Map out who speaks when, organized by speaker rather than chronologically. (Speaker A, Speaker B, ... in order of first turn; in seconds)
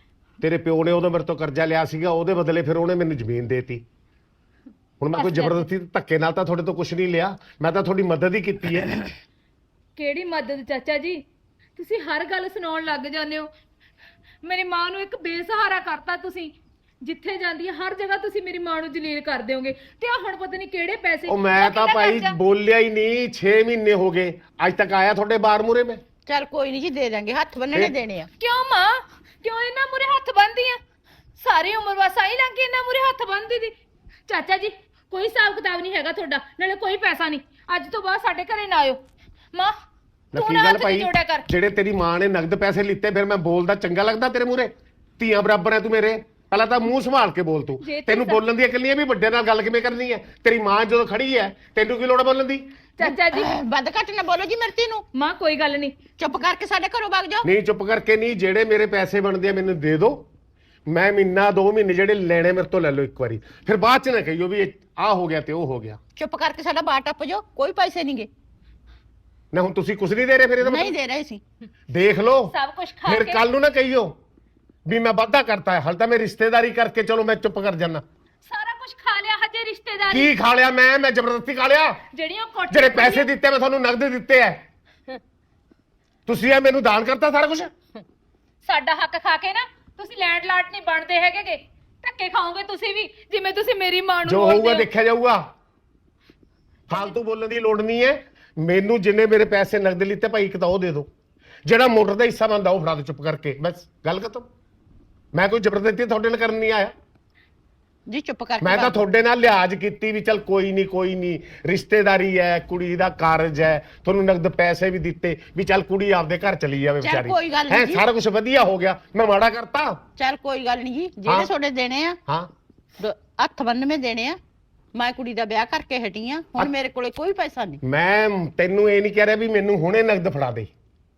Speaker A: 0.4-3.8, 5.0-9.1, 21.3-26.0, 40.3-52.7, 57.4-60.3, 60.9-66.0, 69.5-71.0, 71.9-74.2, 74.9-78.0, 80.1-82.0, 82.7-84.7, 86.3-87.7, 94.2-95.5, 96.9-101.1, 101.7-104.5, 105.3-106.9, 108.6-120.0, 122.3-122.5, 127.8-130.7
Speaker B: 5.1-5.7, 10.0-11.2, 11.8-13.5, 14.4-16.5, 17.0-22.4, 28.4-30.8, 31.4-33.7, 34.3-39.0, 40.4-41.5, 47.8-48.4, 53.0-53.5, 55.1-56.0, 72.5-73.4, 78.5-80.3, 82.1-83.3, 88.7-94.9
Speaker C: 26.3-28.3, 53.0-55.0, 56.2-57.5, 66.2-68.3, 70.6-71.4, 108.1-109.0, 117.0-118.0, 120.2-122.2, 123.0-124.4, 125.0-127.8